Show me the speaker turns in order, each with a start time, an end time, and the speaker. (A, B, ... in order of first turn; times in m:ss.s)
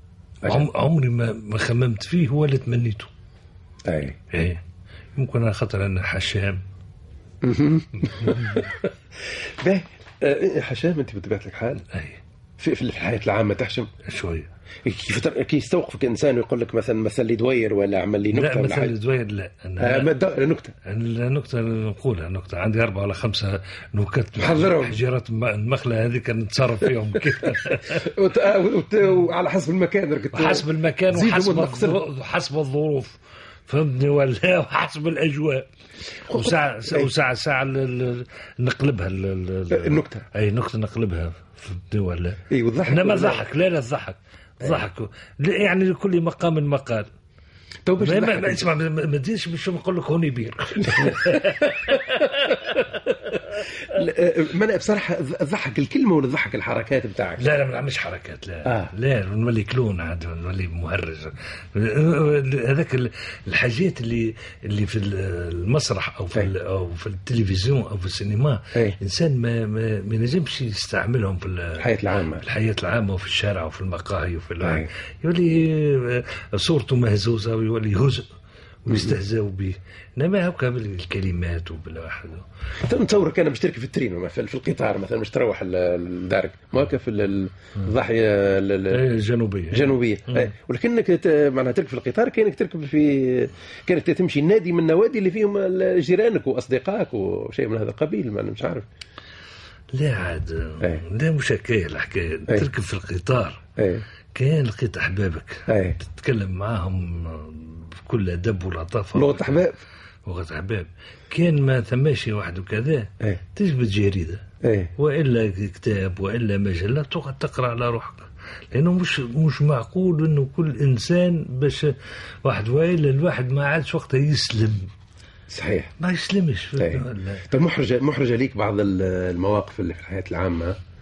0:00.4-0:03.1 A
0:03.8-0:04.2 B
0:04.3-0:04.6 A
0:05.2-0:06.6 A
0:07.4-0:08.9 B
0:08.1-0:08.7 A
0:09.6-0:11.8 B
0:11.9-0:12.2 A
0:12.6-0:13.9 B
0:14.0-0:14.5 A
0:14.8-0:18.9 B
0:18.3-0:20.1 A
0:19.8-0:20.7 B
0:20.8-0:28.0 A
0:24.4-0:25.0 B
0:27.2-0:32.0 B
0:30.3-0:33.2 A
0:33.7-0:35.6 A
0:36.3-0:37.1 B
0:36.3-0:47.1 A
0:39.7-0:40.2 B
0:42.5-0:43.4 B
0:47.8-0:48.6 B
0:48.0-0:52.8 A
0:50.8-0:52.2 B
0:53.9-0:57.4 B
0:57.4-1:11.8 A
0:58.6-0:58.9 B
1:11.8-1:12.4 B
1:12.4-1:18.2 A
1:14.6-1:14.9 B
1:18.8-1:22.4 A
1:18.9-1:19.2 B
1:22.8-1:29.0 B
1:28.9-1:30.5 A
1:29.7-1:38.8 B
1:39.9-1:43.6 A
1:43.8-1:44.0 B
1:44.3-1:49.6 A
1:45.7-1:46.0 B
1:49.1-1:49.8 B
1:50.2-1:54.4 A
1:54.6-1:54.9 B
1:55.0-2:01.9 A
2:02.4-2:04.9 A
2:05.5-2:05.9 B
2:06.0-2:07.4 A
2:06.8-2:10.8 B